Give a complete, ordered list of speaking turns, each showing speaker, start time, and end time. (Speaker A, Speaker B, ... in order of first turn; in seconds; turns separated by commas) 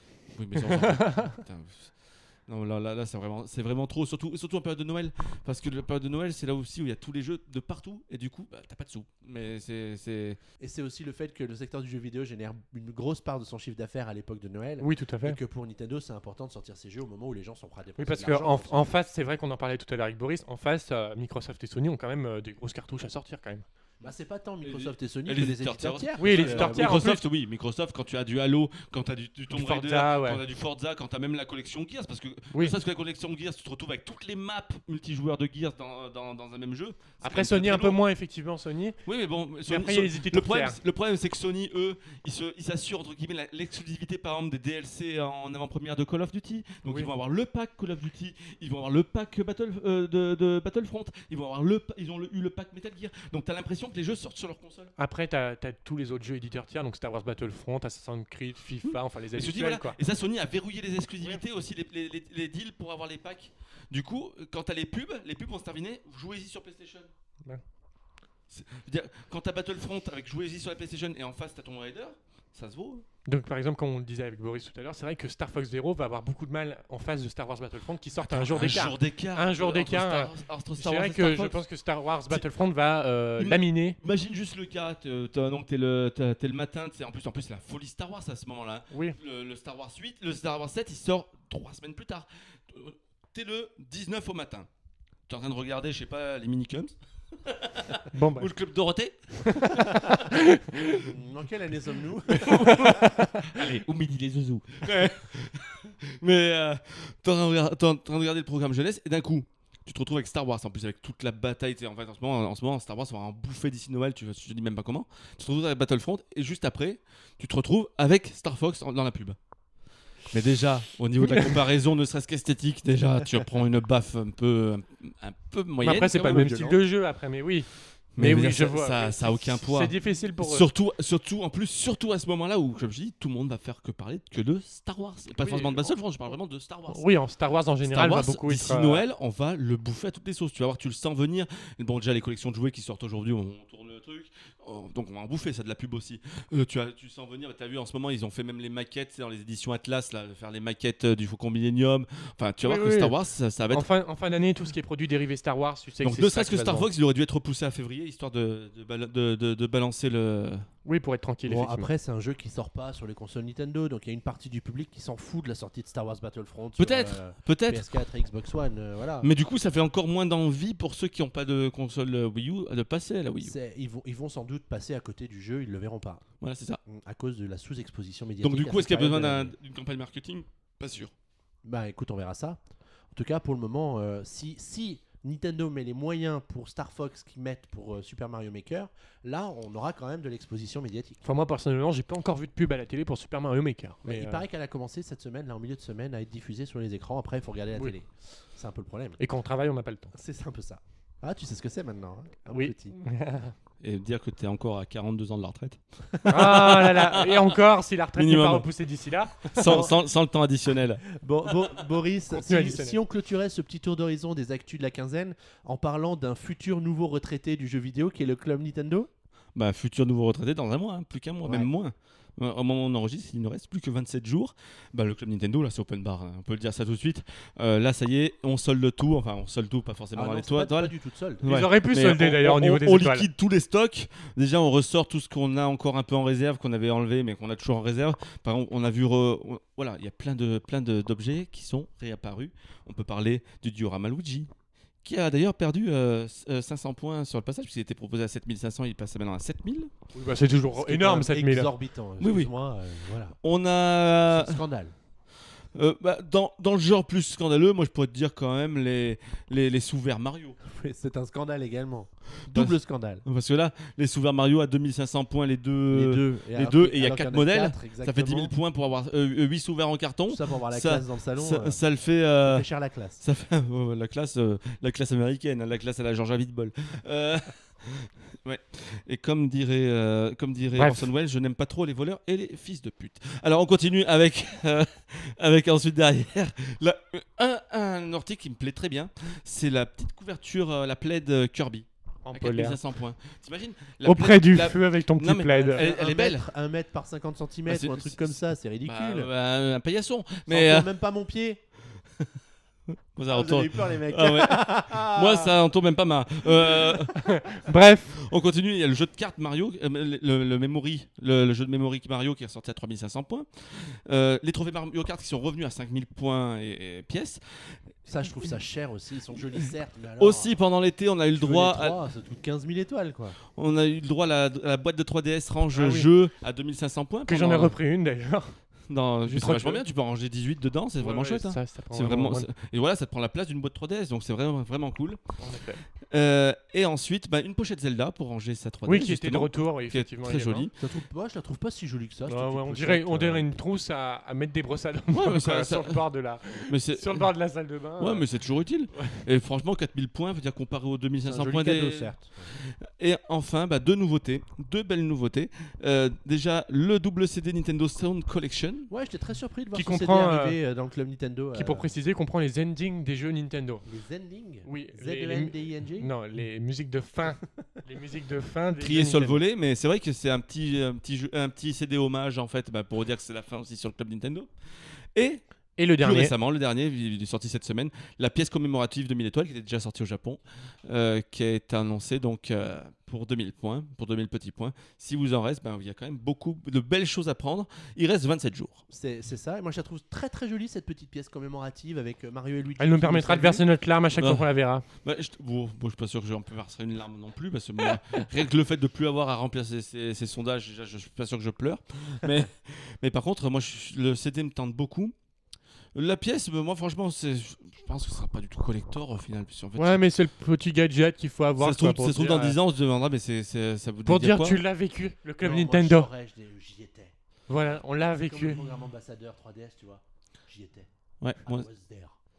Speaker A: 0.3-10.4, Speaker B: 0.7-1.4, Speaker C: 10.6-18.9, Speaker B: 14.8-15.4, Speaker B: 18.0-23.6, Speaker C: 24.0-27.0, Speaker A: 24.6-38.0, Speaker B: 26.2-27.2, Speaker B: 29.5-30.4, Speaker B: 37.2-39.0, Speaker A: 39.0-54.9, Speaker B: 39.6-40.8, Speaker B: 46.8-47.1, Speaker B: 55.0-60.0, Speaker A: 59.3-67.1, Speaker A: 68.5-73.0, Speaker B: 73.3-84.0, Speaker A: 78.2-81.6, Speaker A: 83.4-94.7, Speaker B: 88.9-89.2, Speaker A: 95.3-100.1, Speaker B: 98.1-98.5, Speaker B: 99.5-101.1, Speaker C: 100.9-103.0, Speaker A: 102.4-119.4, Speaker B: 102.4-103.5, Speaker A: 120.2-126.8, Speaker B: 125.8-130.7, Speaker A: 128.1-137.1, Speaker B: 135.3-136.0, Speaker B: 136.9-139.0, Speaker A: 137.8-153.8, Speaker B: 152.6-153.2, Speaker B: 153.7-156.9, Speaker A: 156.0-160.7, Speaker B: 160.8-161.9, Speaker C: 161.4-169.3, Speaker A: 166.8-167.8, Speaker A: 169.2-173.5, Speaker C: 173.4-176.2, Speaker A: 176.4-176.8, Speaker C: 176.8-179.5, Speaker A: 178.4-181.1, Speaker C: 181.6-182.6, Speaker C: 183.1-191.2, Speaker B: 191.2-194.4, Speaker C: 194.0-199.2, Speaker B: 199.2-200.1, Speaker C: 200.1-203.0, Speaker B: 202.5-203.5, Speaker A: 203.8-207.6, Speaker B: 206.3-209.9, Speaker A: 208.2-208.7, Speaker A: 209.4-211.0, Speaker C: 209.7-209.9, Speaker C: 211.1-219.1, Speaker B: 212.3-213.0, Speaker A: 219.5-244.5, Speaker C: 221.4-221.7, Speaker C: 230.1-231.5, Speaker B: 231.4-233.3, Speaker A: 245.0-249.9, Speaker B: 250.1-251.7, Speaker C: 250.2-253.4, Speaker A: 252.2-252.5, Speaker A: 253.4-254.6, Speaker C: 254.3-254.9, Speaker A: 255.7-260.6, Speaker C: 260.6-263.2, Speaker A: 262.5-272.6, Speaker C: 265.9-268.5, Speaker C: 270.3-271.8, Speaker C: 272.4-273.2, Speaker A: 273.2-296.4, Speaker B: 280.7-281.1, Speaker B: 292.2-292.8, Speaker B: 294.0-295.9, Speaker C: 295.7-299.3, Speaker A: 297.6-300.9, Speaker C: 300.5-301.6, Speaker A: 302.9-317.9, Speaker C: 303.3-305.5, Speaker C: 306.6-306.9, Speaker B: 307.3-308.2, Speaker C: 318.1-320.5, Speaker A: 320.2-322.0, Speaker C: 321.3-323.4, Speaker A: 323.5-327.8, Speaker B: 325.7-326.1, Speaker B: 327.3-329.8, Speaker A: 328.9-340.8, Speaker B: 331.0-332.5, Speaker B: 335.4-335.8, Speaker B: 338.9-340.7, Speaker C: 340.8-343.5, Speaker B: 342.3-349.2, Speaker A: 345.1-346.1, Speaker A: 346.6-347.4, Speaker A: 348.0-358.9, Speaker C: 351.2-352.5, Speaker C: 358.9-361.9, Speaker B: 359.7-360.6, Speaker B: 361.5-363.8, Speaker C: 363.8-366.1, Speaker B: 364.6-369.4, Speaker A: 368.8-375.4, Speaker B: 375.8-376.3, Speaker A: 375.9-388.8, Speaker C: 388.9-393.6, Speaker B: 392.8-394.9, Speaker A: 394.2-405.1, Speaker A: 405.9-410.0, Speaker B: 409.8-412.6, Speaker A: 411.6-414.6, Speaker B: 414.0-416.1, Speaker C: 415.4-417.1, Speaker B: 417.5-418.6, Speaker C: 418.2-420.9, Speaker A: 421.2-421.7, Speaker C: 421.4-422.2